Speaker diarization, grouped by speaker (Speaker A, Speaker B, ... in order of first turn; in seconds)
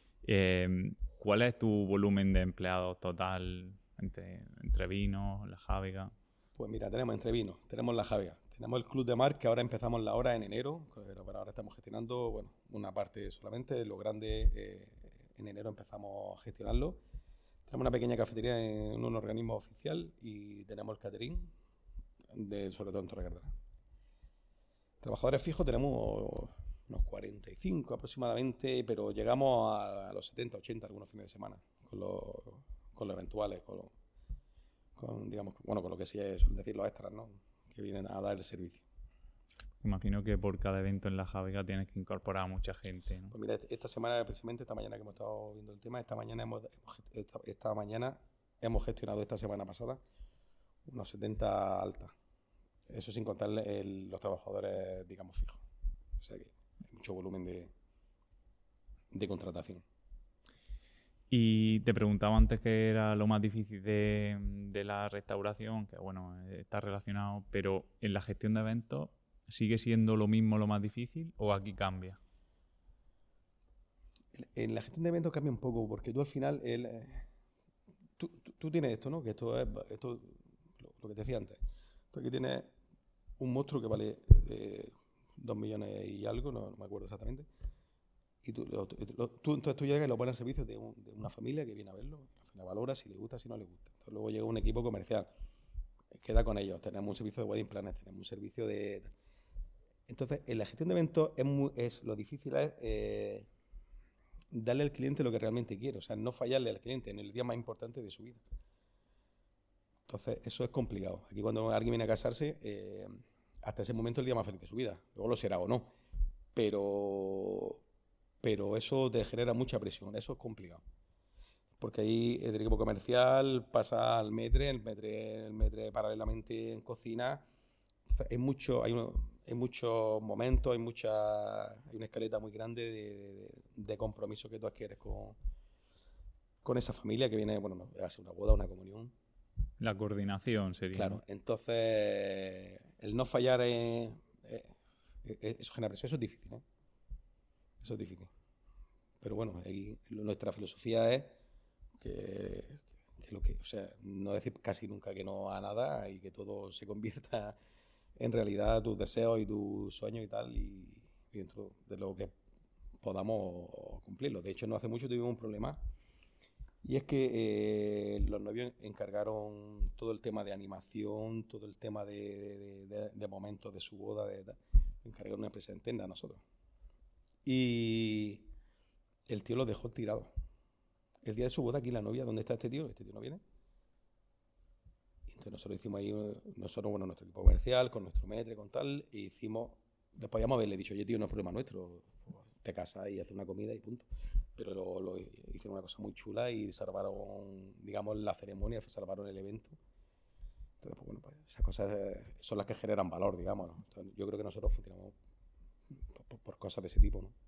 Speaker A: 0.2-6.1, 39.8-43.3, 61.3-72.2, 139.8-141.2
Speaker B: 6.6-17.0, 17.7-21.5, 22.3-23.5, 25.0-33.9, 35.0-38.8, 43.3-50.0, 50.9-52.1, 52.9-55.6, 56.2-57.7, 59.1-59.8, 74.3-77.3, 78.2-81.6, 82.1-82.7, 83.4-87.5, 88.4-95.3, 96.1-99.1, 100.1-103.5, 104.5-108.4, 110.1-115.9, 116.5-117.8, 118.4-120.8, 121.8-127.5, 128.1-135.4, 136.6-139.1, 140.9-146.6, 147.8-148.3, 149.2-151.3, 152.0-157.6, 158.2-162.3, 163.0-165.8, 166.8-176.4, 177.4-178.5, 179.3-180.3, 181.2-183.4, 185.3-199.8, 200.8-205.2, 206.1-207.3